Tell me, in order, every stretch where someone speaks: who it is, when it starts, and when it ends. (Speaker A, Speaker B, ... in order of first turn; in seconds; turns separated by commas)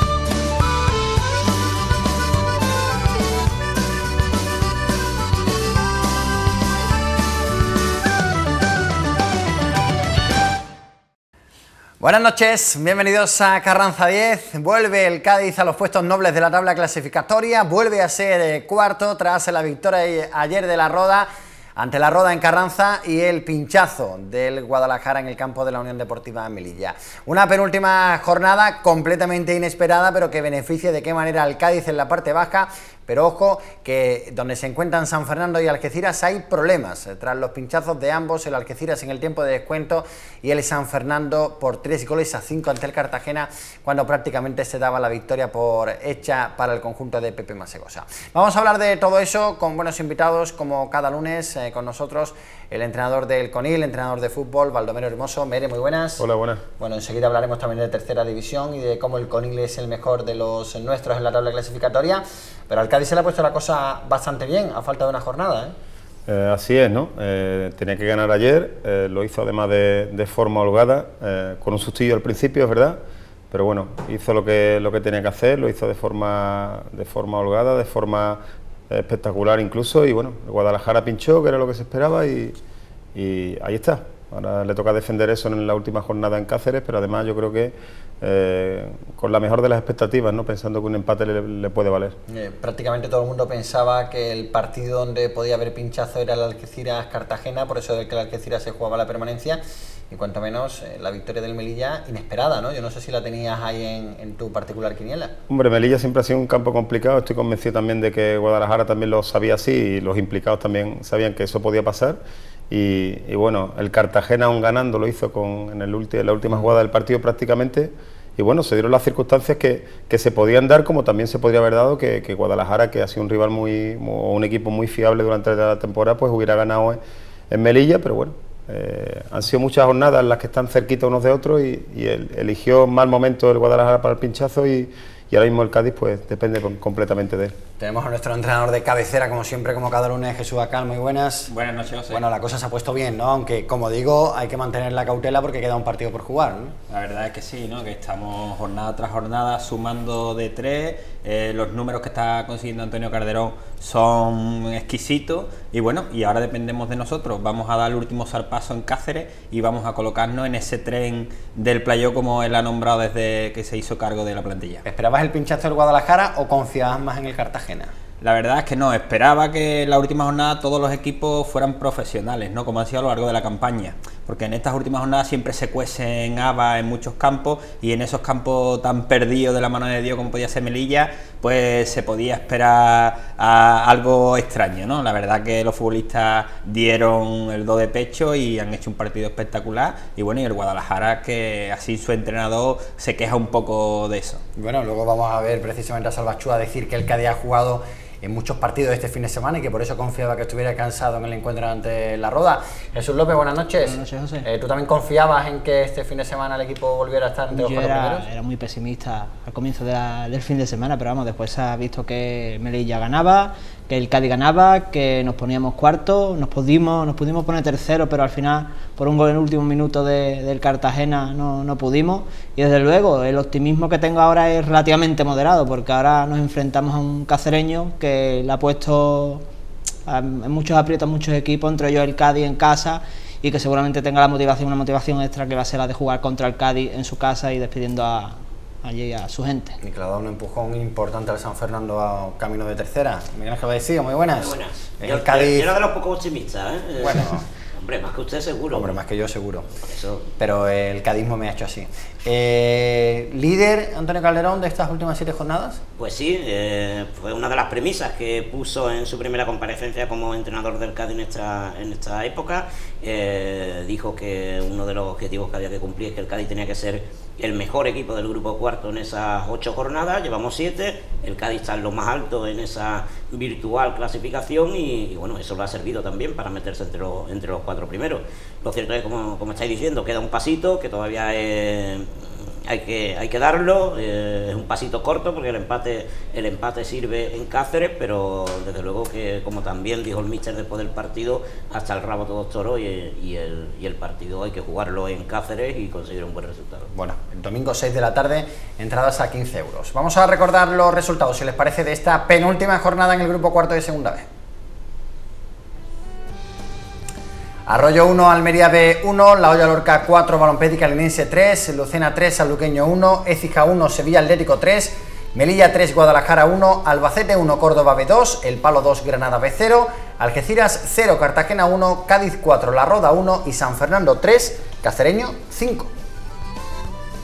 Speaker A: 12.0-56.3, Speaker B: 56.2-56.6, Speaker A: 56.8-65.8, Speaker B: 66.3-73.0, Speaker B: 73.5-82.6, Speaker B: 83.1-92.2, Speaker A: 92.3-105.3, Speaker B: 105.5-127.0, Speaker B: 127.5-137.6, Speaker A: 137.8-141.5, Speaker C: 141.5-142.2, Speaker A: 142.1-146.8, Speaker C: 146.9-164.8, Speaker A: 164.8-167.9, Speaker C: 168.2-194.4, Speaker A: 194.6-208.3, Speaker D: 203.8-204.5, Speaker D: 207.5-229.4, Speaker D: 230.1-239.8, Speaker A: 239.8-245.7, Speaker E: 244.4-249.0, Speaker A: 247.0-247.5, Speaker A: 248.7-249.7, Speaker E: 249.8-250.3, Speaker A: 250.4-255.8, Speaker E: 256.0-296.9, Speaker A: 296.9-304.3, Speaker A: 307.7-325.9